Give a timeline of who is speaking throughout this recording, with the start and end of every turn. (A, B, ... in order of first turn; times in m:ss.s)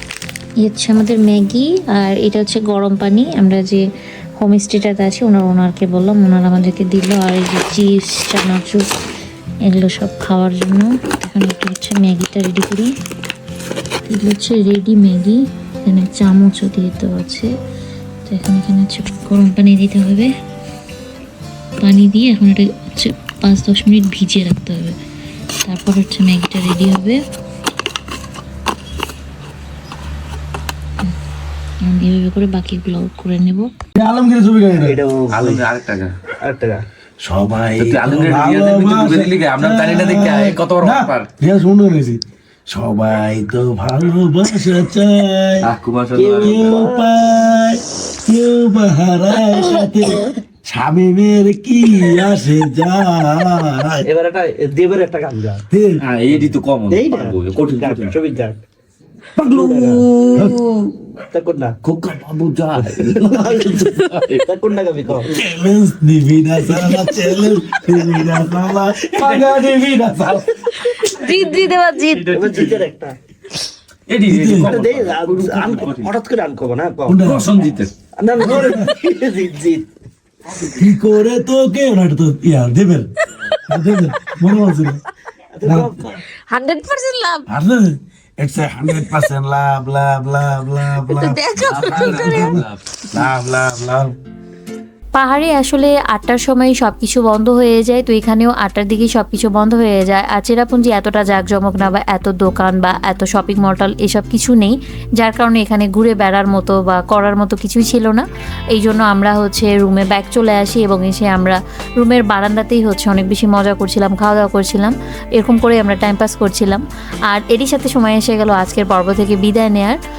0:00.6-0:03.8 A
0:04.4-0:08.9 A
0:09.7-0:12.9 A
0:14.1-0:17.5 A
0:18.3-0:20.3 A
0:21.8-0:25.0 A
0:25.7-0:27.2 A
0:31.8-0:33.7 A
0:34.0-0:35.0 B
0:34.8-0:35.6 C
0:35.3-0:36.2 D
0:36.3-0:36.8 C
0:37.2-0:45.7 B
0:37.8-0:41.3 D
0:45.6-0:46.8 D
0:46.2-0:47.1 C
0:46.4-0:54.1 B
0:54.0-0:55.7 C
0:55.7-0:56.0 B
0:56.0-0:58.2 D
0:56.3-0:58.6 C
0:59.4-1:00.7 D
0:59.4-1:00.1 C
1:00.3-1:00.7 B
1:01.3-1:01.8 C
1:01.8-1:04.5 D
1:02.8-1:05.4 C
1:05.3-1:10.5 B
1:06.8-1:07.1 C
1:09.2-1:09.4 C
1:11.0-1:12.3 A
1:11.2-1:12.9 D
1:12.3-1:13.2 C
1:14.1-1:16.1 D
1:14.2-1:14.8 B
1:14.6-1:17.2 C
1:17.1-1:17.7 B
1:17.2-1:17.9 D
1:18.2-1:19.9 C
1:18.4-1:18.9 B
1:20.7-1:23.1 B
1:23.7-1:25.0 B
1:25.6-1:26.2 C
1:25.6-1:26.0 B
1:26.5-1:27.5 A
1:27.5-1:34.2 B
1:31.0-1:32.6 A
1:31.6-1:32.8 D
1:35.2-2:00.0 E